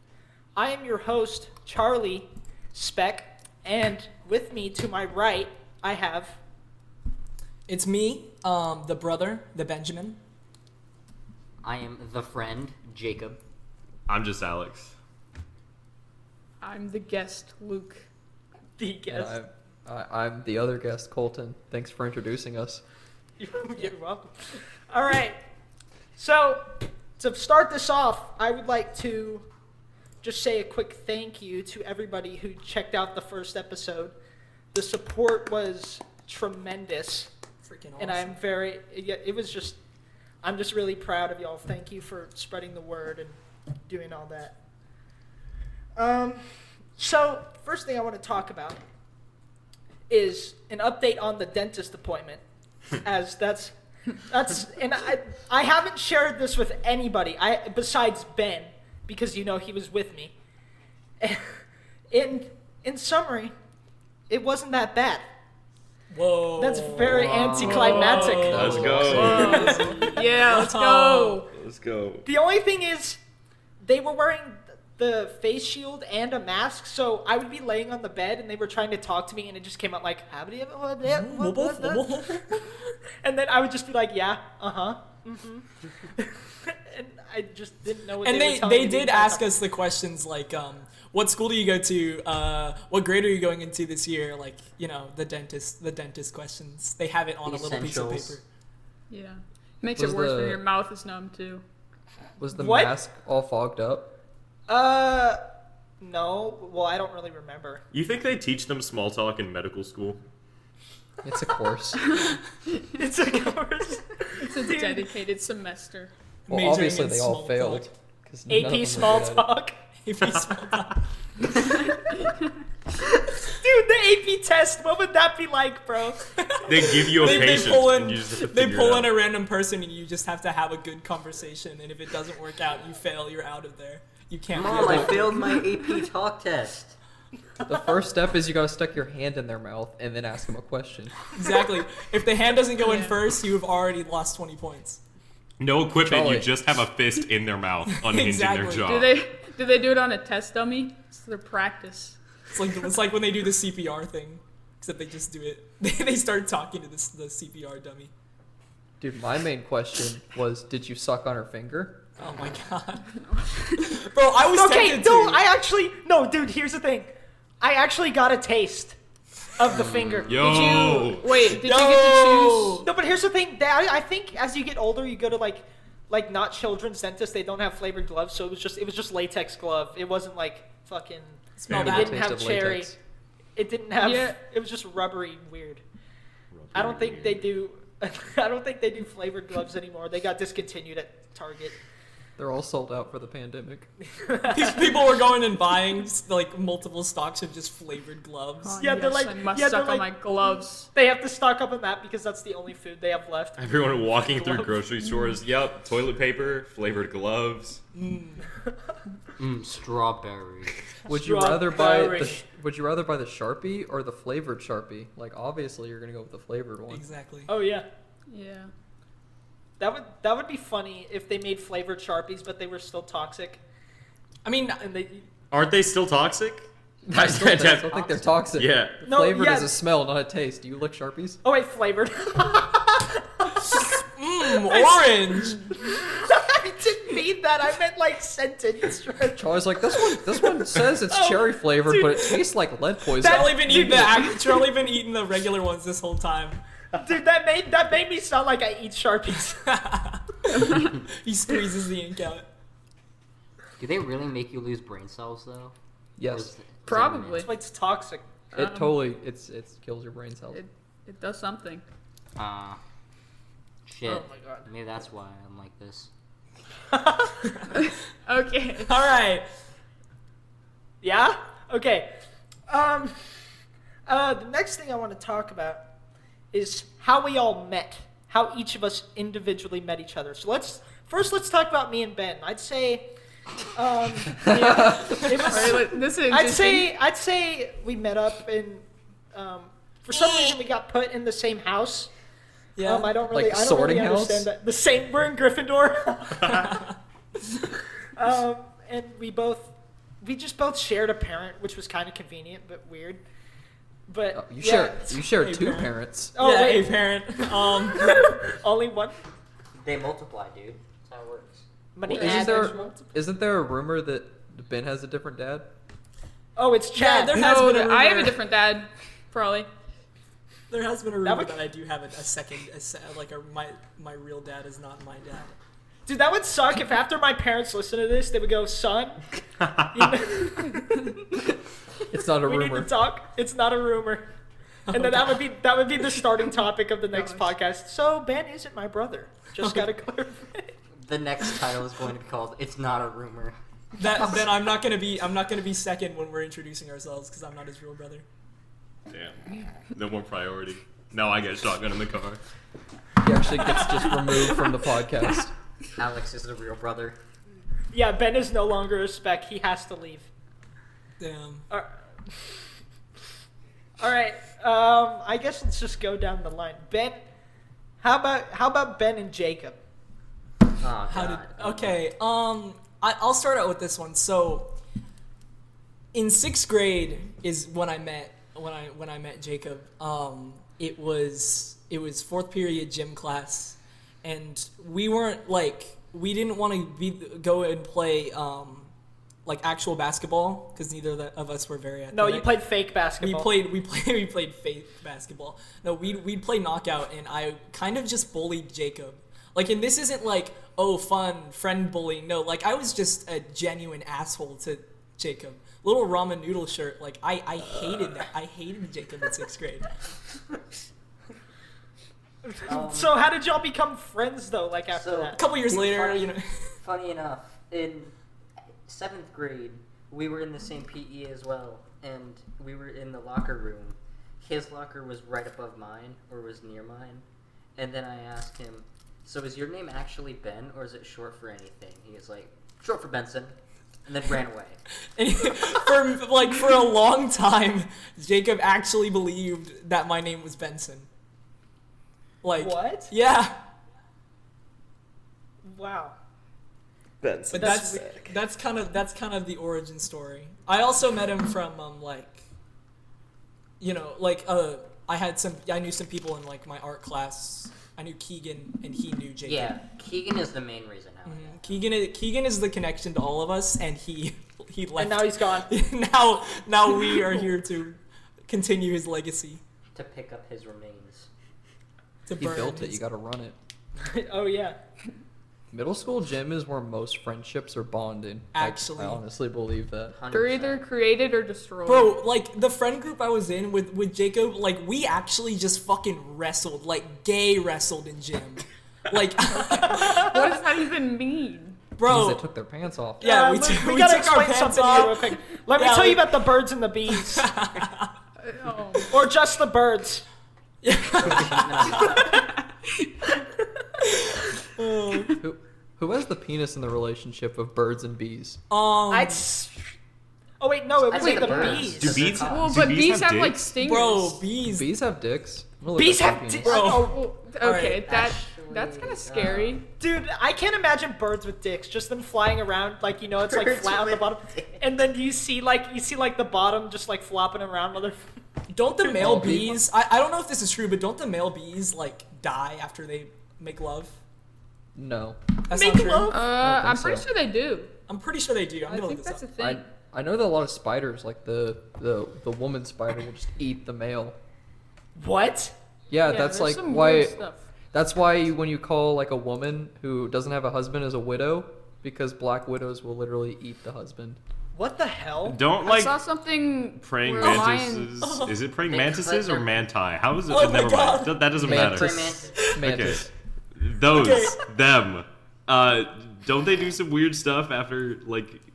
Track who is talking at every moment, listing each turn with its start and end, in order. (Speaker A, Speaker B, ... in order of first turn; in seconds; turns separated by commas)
Speaker A: 0.6-6.4, Speaker B: 7.7-10.2, Speaker C: 11.6-13.4, Speaker D: 14.1-14.9, Speaker E: 16.6-18.1, Speaker A: 18.8-19.4, Speaker F: 19.1-22.8, Speaker A: 23.4-24.3, Speaker A: 24.9-25.4, Speaker A: 26.1-29.4, Speaker A: 30.2-34.1, Speaker A: 34.7-37.3, Speaker B: 37.6-38.4, Speaker A: 38.0-39.8, Speaker A: 40.4-44.5, Speaker A: 46.0-46.4, Speaker A: 47.0-48.8, Speaker A: 50.1-52.4, Speaker A: 53.0-60.3, Speaker A: 61.2-61.6, Speaker A: 62.1-63.5, Speaker A: 64.3-65.2, Speaker B: 66.1-71.4, Speaker A: 66.6-69.9, Speaker F: 67.1-69.5, Speaker E: 67.5-71.5, Speaker D: 68.5-69.8, Speaker D: 71.5-72.2, Speaker A: 72.2-73.2, Speaker A: 73.8-89.5, Speaker B: 81.0-82.7, Speaker B: 88.2-98.4, Speaker C: 97.4-98.4, Speaker E: 99.1-101.6, Speaker F: 100.0-100.6, Speaker F: 102.4-104.1, Speaker A: 102.5-102.9, Speaker A: 104.7-105.4, Speaker A: 106.0-107.8, Speaker D: 107.9-110.2, Speaker F: 111.2-112.1, Speaker E: 112.1-112.3, Speaker A: 112.9-115.1, Speaker E: 114.3-116.1, Speaker B: 116.5-117.9, Speaker F: 116.5-119.5, Speaker A: 118.5-119.7, Speaker B: 120.0-121.0, Speaker A: 123.4-126.2, Speaker B: 126.4-135.5, Speaker D: 126.7-129.2, Speaker A: 127.2-127.7, Speaker C: 134.5-137.0, Speaker F: 134.7-135.3, Speaker F: 137.6-141.2, Speaker B: 141.3-145.0, Speaker E: 142.8-143.2, Speaker D: 145.6-149.2, Speaker F: 146.0-146.8, Speaker B: 147.9-148.9, Speaker E: 148.8-152.2, Speaker B: 152.5-158.1, Speaker F: 159.0-162.0, Speaker B: 162.2-163.1, Speaker E: 163.4-163.9, Speaker B: 163.7-165.4, Speaker A: 164.5-168.9, Speaker A: 169.6-171.2, Speaker C: 169.7-170.4, Speaker D: 170.3-171.4, Speaker E: 170.4-172.8, Speaker B: 171.5-172.9, Speaker A: 172.8-182.9, Speaker B: 181.6-182.2, Speaker D: 181.7-182.0, Speaker F: 181.7-182.9, Speaker A: 183.6-185.8, Speaker E: 184.0-184.4, Speaker D: 186.5-187.5, Speaker A: 186.7-191.8, Speaker F: 192.4-193.9, Speaker A: 194.2-195.1, Speaker B: 194.5-198.8, Speaker E: 198.6-200.9, Speaker A: 198.8-200.1, Speaker A: 200.9-204.9, Speaker D: 203.6-207.8, Speaker B: 207.9-208.5, Speaker C: 209.4-210.8, Speaker F: 211.1-217.1, Speaker A: 211.1-212.4, Speaker B: 216.9-217.5, Speaker A: 217.5-217.8, Speaker E: 218.3-218.7, Speaker A: 219.8-223.6, Speaker B: 224.4-225.2, Speaker D: 225.5-228.9, Speaker F: 227.0-231.4, Speaker A: 229.0-229.7, Speaker A: 231.4-233.9, Speaker B: 234.0-235.6, Speaker A: 234.6-242.4, Speaker F: 239.4-244.1, Speaker B: 243.2-246.6, Speaker A: 243.2-244.7, Speaker A: 246.9-249.6, Speaker B: 249.6-252.4, Speaker E: 250.5-251.0, Speaker C: 253.8-257.5, Speaker F: 256.2-256.6, Speaker E: 256.9-257.5, Speaker A: 257.4-258.2, Speaker E: 258.5-259.0, Speaker F: 258.5-260.6, Speaker E: 260.5-261.8, Speaker C: 262.4-262.8, Speaker C: 263.9-266.1, Speaker A: 264.2-264.6, Speaker A: 266.9-267.4, Speaker B: 267.4-267.9, Speaker E: 267.8-268.9, Speaker B: 268.8-269.4, Speaker A: 271.0-272.1, Speaker A: 272.7-273.2, Speaker A: 274.1-275.8, Speaker A: 276.5-283.1, Speaker A: 283.7-292.1, Speaker F: 284.4-285.2, Speaker B: 285.2-285.6, Speaker E: 285.2-286.9, Speaker B: 290.1-290.6, Speaker B: 292.8-293.2, Speaker A: 292.8-296.8, Speaker F: 293.3-294.5, Speaker B: 296.4-296.9, Speaker A: 298.1-303.2, Speaker A: 304.1-305.1, Speaker F: 304.3-306.3, Speaker B: 305.2-308.2, Speaker A: 306.4-307.1, Speaker A: 307.8-309.1, Speaker C: 309.8-311.6, Speaker A: 311.9-313.1, Speaker F: 312.1-315.7, Speaker E: 312.2-312.5, Speaker A: 316.6-317.6, Speaker B: 316.9-318.4, Speaker E: 317.3-319.7, Speaker B: 320.7-325.5, Speaker A: 321.2-321.6, Speaker A: 326.1-329.2, Speaker D: 329.6-330.3, Speaker A: 329.9-331.2, Speaker F: 332.1-332.9, Speaker A: 332.4-334.2, Speaker B: 334.9-335.4, Speaker A: 334.9-340.7, Speaker E: 337.1-337.5, Speaker B: 339.6-339.9, Speaker C: 341.0-344.3, Speaker B: 343.9-348.2, Speaker D: 349.1-352.4, Speaker F: 353.2-355.5, Speaker C: 356.0-357.2, Speaker A: 357.9-360.3, Speaker B: 361.2-361.6, Speaker A: 361.7-362.6, Speaker A: 364.0-367.2, Speaker A: 368.0-369.8, Speaker C: 370.8-372.0, Speaker B: 371.1-374.7, Speaker B: 376.1-388.9, Speaker B: 389.4-392.5, Speaker A: 392.1-393.5, Speaker B: 393.2-409.9, Speaker A: 412.4-415.4, Speaker C: 412.6-413.1, Speaker C: 414.9-416.3, Speaker B: 415.3-416.7, Speaker C: 416.8-418.1, Speaker C: 418.9-427.2, Speaker C: 427.8-434.8, Speaker B: 435.1-441.1, Speaker B: 442.4-443.5, Speaker A: 442.6-443.1, Speaker A: 445.6-446.1, Speaker D: 447.2-448.1, Speaker B: 447.5-452.4, Speaker A: 447.5-448.3, Speaker B: 453.8-459.8, Speaker C: 459.4-461.8, Speaker B: 461.2-469.6, Speaker A: 465.0-465.7, Speaker C: 469.9-471.3, Speaker B: 472.2-473.0, Speaker F: 472.4-473.6, Speaker A: 474.0-474.8, Speaker F: 475.7-480.2, Speaker B: 478.5-479.2, Speaker C: 480.1-480.9, Speaker E: 480.3-482.2, Speaker B: 481.9-490.4, Speaker A: 489.6-490.4, Speaker E: 489.7-491.9, Speaker B: 491.9-492.4, Speaker F: 492.1-493.3, Speaker B: 493.2-496.4, Speaker A: 493.2-497.5, Speaker B: 497.1-498.1, Speaker E: 498.4-499.1, Speaker A: 499.1-500.2, Speaker B: 500.8-502.4, Speaker C: 501.1-502.4, Speaker B: 504.0-505.4, Speaker F: 505.4-508.6, Speaker B: 508.7-509.4, Speaker A: 509.1-509.8, Speaker A: 510.6-512.2, Speaker C: 511.1-512.8, Speaker D: 511.2-513.6, Speaker E: 512.4-514.5, Speaker B: 513.8-514.9, Speaker F: 514.6-516.8, Speaker A: 515.9-517.2, Speaker B: 516.6-518.0, Speaker E: 516.7-519.9, Speaker C: 518.0-519.8, Speaker A: 520.0-528.2, Speaker C: 523.4-524.8, Speaker B: 528.7-534.2, Speaker F: 529.0-529.8, Speaker F: 534.9-535.4, Speaker B: 535.7-536.4, Speaker A: 535.7-536.4, Speaker E: 536.3-537.9, Speaker F: 536.5-537.3, Speaker B: 538.1-539.5, Speaker E: 538.9-539.9, Speaker F: 539.6-544.4, Speaker A: 545.2-545.7, Speaker F: 546.1-547.4, Speaker E: 546.2-547.7, Speaker F: 547.9-554.4, Speaker A: 554.7-555.6, Speaker D: 555.4-556.2, Speaker E: 555.8-558.2, Speaker D: 557.0-568.6, Speaker B: 558.2-558.6, Speaker C: 558.9-559.8, Speaker B: 560.5-561.5, Speaker F: 561.5-563.3, Speaker C: 561.6-562.7, Speaker B: 564.1-564.6